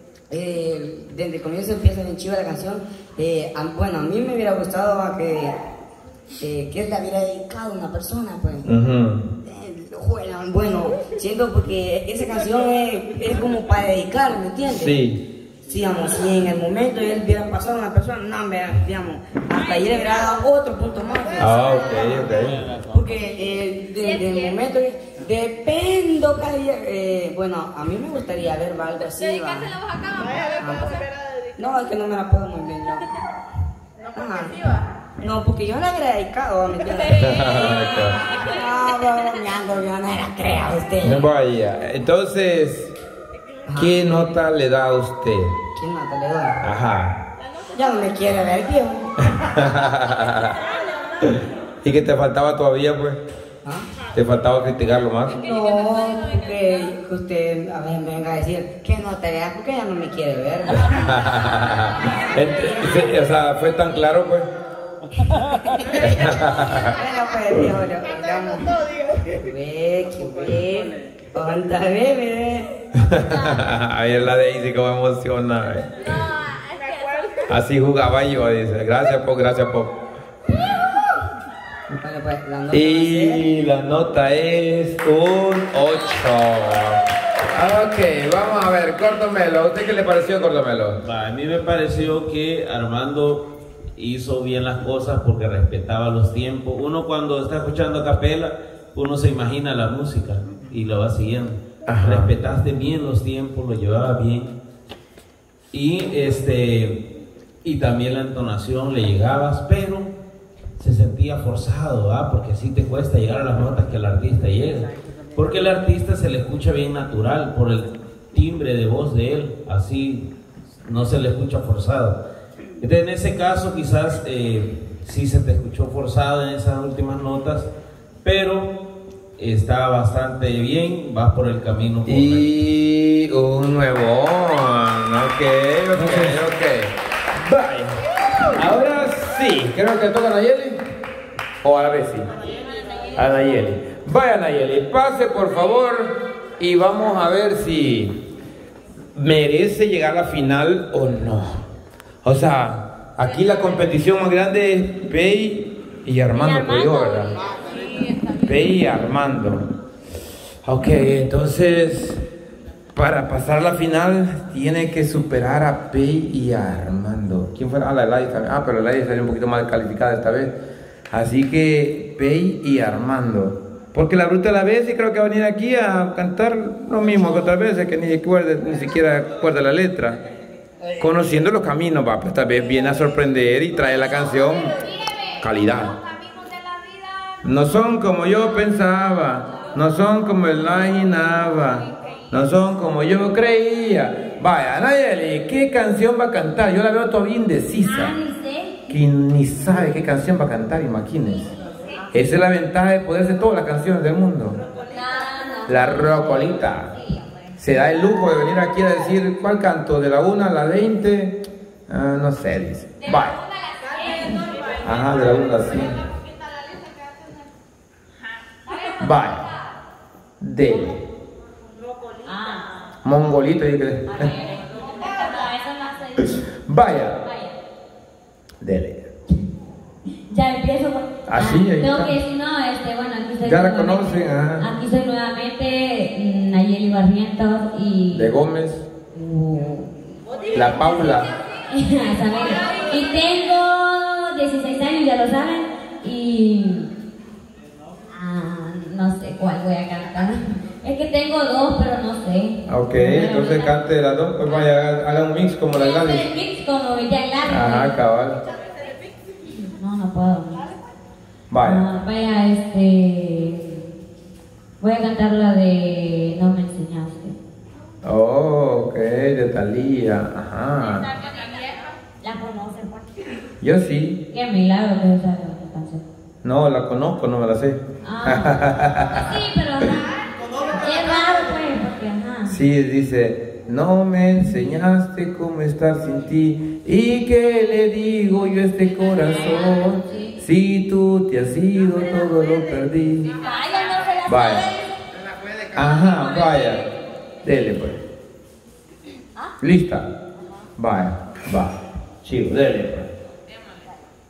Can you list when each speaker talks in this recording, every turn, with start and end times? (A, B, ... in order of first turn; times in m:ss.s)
0:00.3-0:05.6 A
0:06.4-0:08.7 A
0:08.6-0:09.3 B
0:09.4-0:14.9 A
0:14.7-0:15.2 B
0:15.7-0:21.6 A
0:21.4-0:22.7 B
0:22.3-0:23.2 C
0:22.9-0:31.0 A
0:31.6-0:33.1 A
0:34.1-0:37.5 A
0:37.1-0:38.2 B
0:38.4-0:41.2 A
0:41.0-0:43.0 B
0:43.7-0:44.0 A
0:43.8-0:45.6 B
0:45.8-0:46.6 A
0:46.6-0:47.2 B
0:47.8-0:49.2 A
0:49.3-0:50.6 B
0:51.2-0:53.2 B
0:54.1-0:55.4 B
0:55.3-1:00.9 A
1:00.9-1:04.5 B
1:06.0-1:06.9 B
1:06.9-1:12.7 A
1:13.0-1:16.1 B
1:17.5-1:20.0 B
1:21.9-1:23.4 A
1:22.7-1:27.0 B
1:27.5-1:31.0 B
1:31.0-1:44.6 C
1:41.9-1:42.3 B
1:45.7-1:47.1 C
1:47.6-1:50.1 C
1:50.8-2:00.3 C
2:00.8-2:02.2 C
2:02.8-2:07.7 C
2:08.2-2:08.7 C
2:09.4-2:12.5 C
2:12.1-2:17.9 B
2:15.9-2:16.4 C
2:18.6-2:20.8 B
2:21.6-2:22.3 B
2:23.2-2:28.2 B
2:29.2-2:31.6 B
2:32.2-2:37.4 B
2:36.3-2:37.4 D
2:38.4-2:39.7 B
2:40.6-2:42.2 B
2:43.0-2:50.6 B
2:51.1-3:00.2 B
3:01.0-3:06.0 B
3:07.4-3:18.2 B
3:17.8-3:18.8 D
3:18.9-3:21.5 B
3:22.1-3:24.6 B
3:24.9-3:26.4 D
3:25.7-3:26.9 B
3:27.6-3:33.4 B
3:34.0-3:34.4 D
3:34.8-3:36.0 B
3:39.0-3:39.5 B
3:40.4-3:41.0 B
3:42.2-3:42.7 D
3:43.0-3:44.3 B
3:44.2-3:46.4 D
3:46.7-3:47.2 B
3:47.2-3:47.5 D
3:48.6-3:49.1 B
3:50.3-3:58.3 D
3:51.3-3:52.2 B
3:53.4-3:54.7 B
3:58.1-3:58.9 B
3:59.1-3:59.9 D
4:00.5-4:01.3 B
4:01.7-4:06.9 D
4:08.1-4:13.7 D
4:12.7-4:16.3 B
4:15.8-4:18.0 D
4:17.4-4:18.4 B
4:19.5-4:20.7 D
4:21.5-4:21.8 B
4:21.6-4:23.8 D
4:24.8-4:27.4 D
4:28.0-4:31.1 B
4:32.2-4:33.2 D
4:33.6-4:34.2 B
4:34.3-4:36.0 D
4:36.4-4:39.3 B
4:38.0-4:40.1 D
4:40.8-4:42.6 D
4:42.5-4:53.3 B
4:49.6-4:50.3 D
4:53.4-4:54.8 D
4:54.3-4:54.7 B
4:55.7-4:56.9 B
4:57.4-4:58.0 B
4:59.6-5:00.1 B
5:00.8-5:03.1 B